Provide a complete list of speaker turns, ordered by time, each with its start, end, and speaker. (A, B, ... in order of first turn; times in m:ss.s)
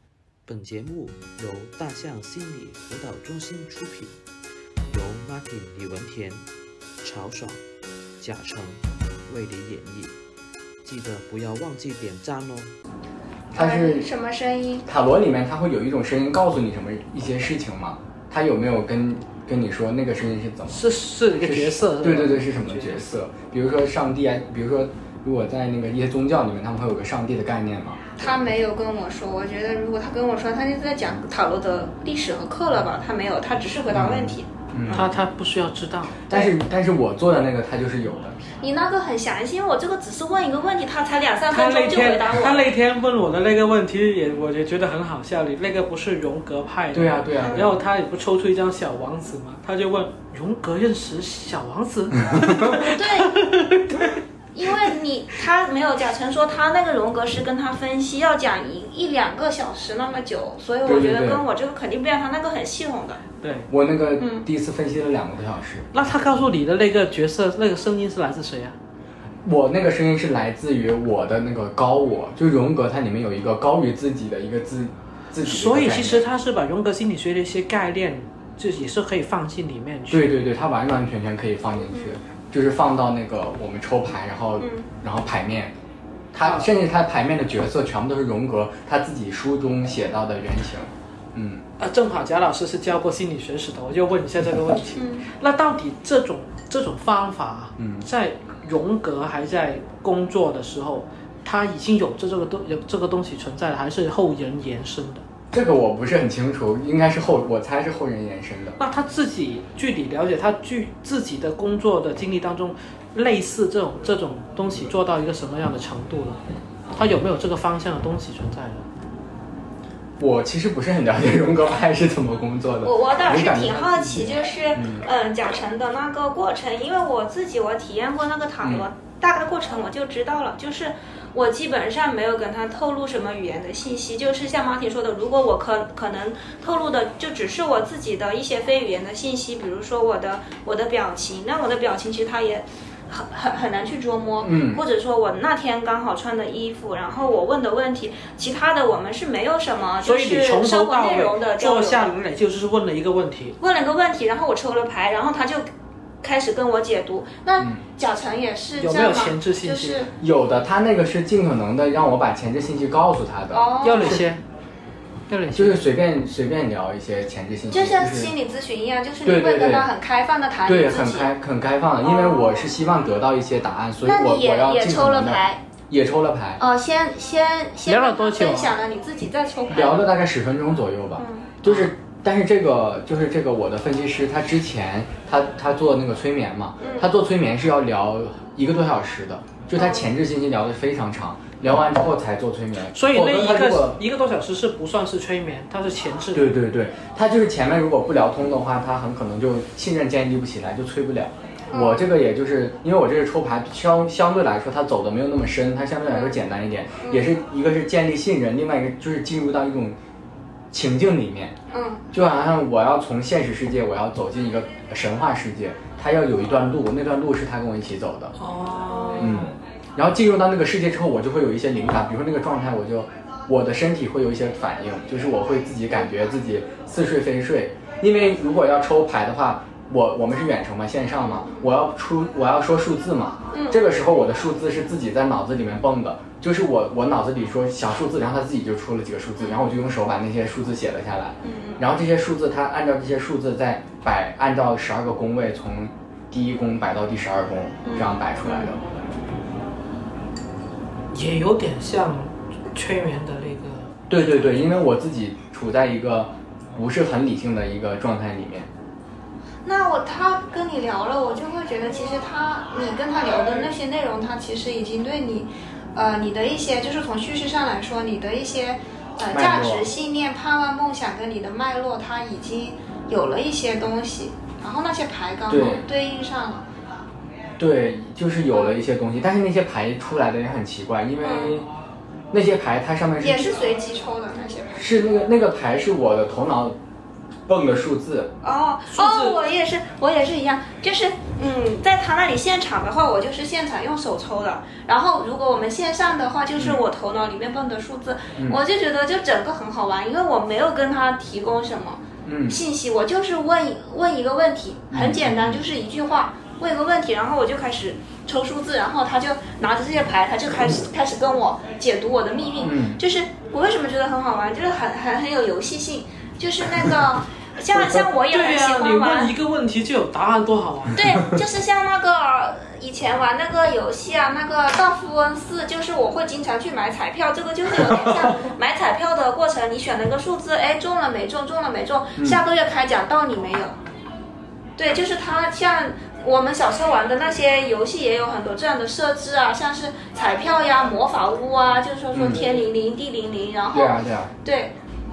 0:00.5-0:04.2 A
0:04.9-0:06.5 A
0:07.0-0:07.6 A
0:08.2-0:10.2 A
0:10.8-0:12.7 A
0:13.5-0:14.1 B
0:13.5-0:14.8 C
0:14.8-0:20.8 B
0:20.7-0:23.1 D
0:21.4-0:28.2 B
0:28.2-0:35.0 C
0:33.9-0:35.1 B
0:34.9-0:36.2 D
0:36.3-0:38.4 B
0:38.6-0:42.7 C
0:41.5-0:54.2 D
0:46.9-0:47.7 B
0:47.4-0:47.7 C
0:52.3-0:52.8 B
0:52.9-0:53.4 C
0:54.5-1:03.2 C
1:00.8-1:01.4 B
1:03.4-1:03.7 D
1:03.7-1:05.9 B
1:04.2-1:04.4 C
1:05.9-1:08.8 D
1:09.4-1:16.2 B
1:15.4-1:20.3 D
1:20.1-1:25.7 B
1:24.6-1:24.9 C
1:26.3-1:31.6 B
1:31.8-1:45.2 D
1:35.0-1:35.3 C
1:37.8-1:38.0 B
1:45.5-1:48.8 B
1:48.8-1:56.4 D
1:57.0-1:58.9 D
2:00.2-2:05.0 B
2:02.8-2:32.1 C
2:08.6-2:08.9 B
2:24.4-2:24.8 B
2:30.0-2:33.6 D
2:33.6-2:35.7 C
2:36.2-2:40.1 C
2:38.8-2:40.1 D
2:40.2-2:44.2 B
2:43.5-2:44.2 C
2:43.8-2:44.4 D
2:45.3-2:45.8 D
2:45.5-2:48.3 B
2:47.7-2:51.3 C
2:49.2-2:49.9 B
2:50.6-2:56.6 B
2:52.0-2:52.6 C
2:54.0-2:55.6 C
2:56.6-3:00.1 C
2:57.8-2:58.8 D
2:59.7-3:14.0 B
3:01.2-3:01.6 C
3:06.8-3:07.1 C
3:09.7-3:10.1 C
3:12.9-3:16.5 D
3:16.3-3:30.0 B
3:21.7-3:22.1 C
3:26.1-3:26.4 C
3:27.0-3:27.3 C
3:30.7-3:31.5 B
3:31.7-3:32.0 C
3:32.1-3:38.3 B
3:38.4-3:39.5 D
3:38.8-3:39.4 C
3:39.2-4:08.8 B
3:51.2-3:51.7 C
3:53.5-3:53.8 C
3:59.4-3:59.7 C
4:01.4-4:01.8 C
4:07.8-4:08.7 C
4:11.1-4:13.9 D
4:14.1-4:18.7 B
4:19.6-4:36.6 C
4:29.3-4:29.9 B
4:35.5-4:35.8 B
4:37.6-4:41.7 B
4:38.5-4:38.8 C
4:41.2-4:41.6 C
4:42.3-4:43.6 B
4:43.2-4:44.9 C
4:44.8-4:46.8 B
4:47.5-4:48.3 B
4:48.4-5:19.3 C
4:48.9-4:49.4 D
4:56.6-4:56.8 B
5:02.2-5:02.6 B
5:04.9-5:05.6 B
5:12.6-5:13.0 B
5:17.8-5:21.1 D
5:20.9-5:33.7 C
5:32.2-5:32.4 B
5:34.8-5:44.7 C
5:42.1-5:42.5 B
5:43.7-5:44.3 B